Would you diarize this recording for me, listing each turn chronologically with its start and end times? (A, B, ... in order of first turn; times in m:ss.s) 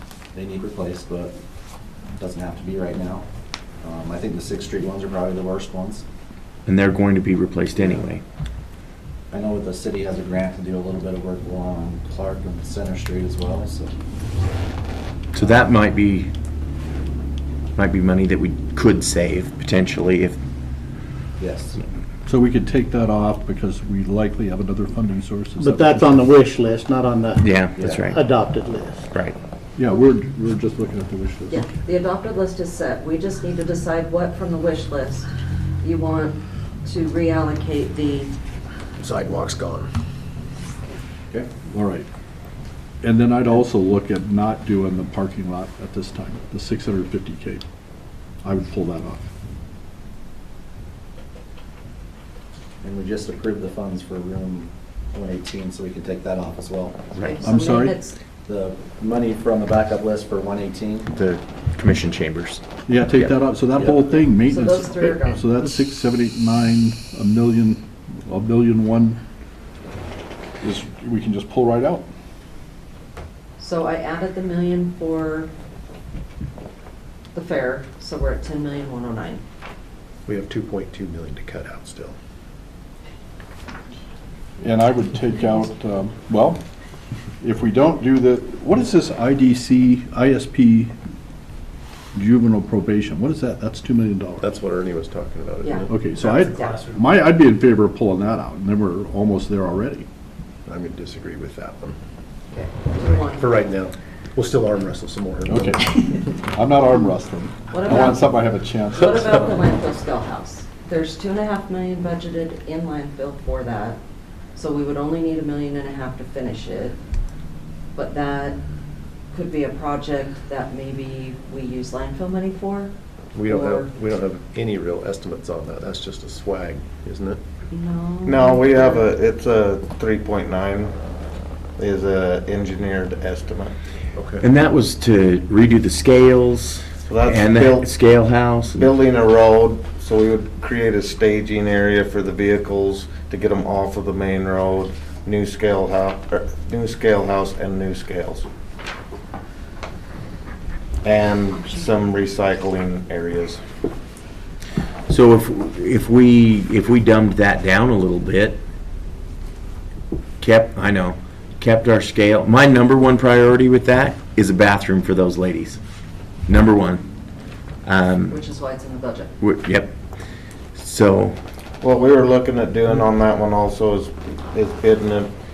0:00.3-0:01.3 A
0:02.2-0:03.3 A
0:03.8-0:06.0 A
0:06.6-0:08.2 B
0:07.8-0:08.0 A
0:09.3-0:13.9 A
0:15.3-0:16.3 B
0:17.8-0:20.4 B
0:21.4-0:21.8 A
0:22.2-0:26.3 C
0:25.6-0:27.5 D
0:27.4-0:28.2 B
0:27.8-0:28.1 A
0:28.0-0:29.1 D
0:29.8-0:31.6 C
0:31.5-0:35.3 E
0:35.8-0:38.3 E
0:39.0-0:39.9 F
0:41.6-0:42.1 C
0:43.0-0:47.6 C
0:48.4-0:49.3 C
0:52.8-0:57.0 A
0:57.1-0:57.4 B
0:57.2-0:58.2 E
0:57.4-0:58.0 C
0:58.4-1:01.1 A
1:01.2-1:03.4 B
1:02.9-1:09.2 C
1:04.0-1:05.5 E
1:10.6-1:12.0 C
1:13.6-1:15.5 E
1:17.3-1:19.4 E
1:20.3-1:22.2 F
1:24.6-1:26.6 C
1:27.4-1:30.9 C
1:32.1-1:34.5 C
1:34.4-1:37.0 F
1:35.6-1:36.8 E
1:35.9-1:40.0 C
1:40.7-1:42.0 F
1:42.5-1:43.5 E
1:42.9-1:45.8 F
1:45.4-1:49.5 C
1:47.7-1:48.3 E
1:48.9-1:54.0 E
1:54.5-1:57.0 E
1:57.9-1:58.6 E
1:59.3-2:02.9 E
2:03.3-2:07.4 F
2:03.5-2:03.9 E
2:07.7-2:09.1 E
2:08.2-2:10.9 G
2:11.8-2:13.7 G
2:14.2-2:14.4 F
2:14.4-2:18.9 B
2:17.0-2:17.9 G
2:18.7-2:28.5 G
2:31.0-2:33.6 G
2:35.1-2:38.6 B
2:40.4-2:45.8 B
2:46.5-2:47.0 B
2:47.8-2:48.4 B
2:48.3-2:49.3 E
2:49.4-2:50.0 B
2:50.7-2:51.4 B
2:51.8-2:55.3 G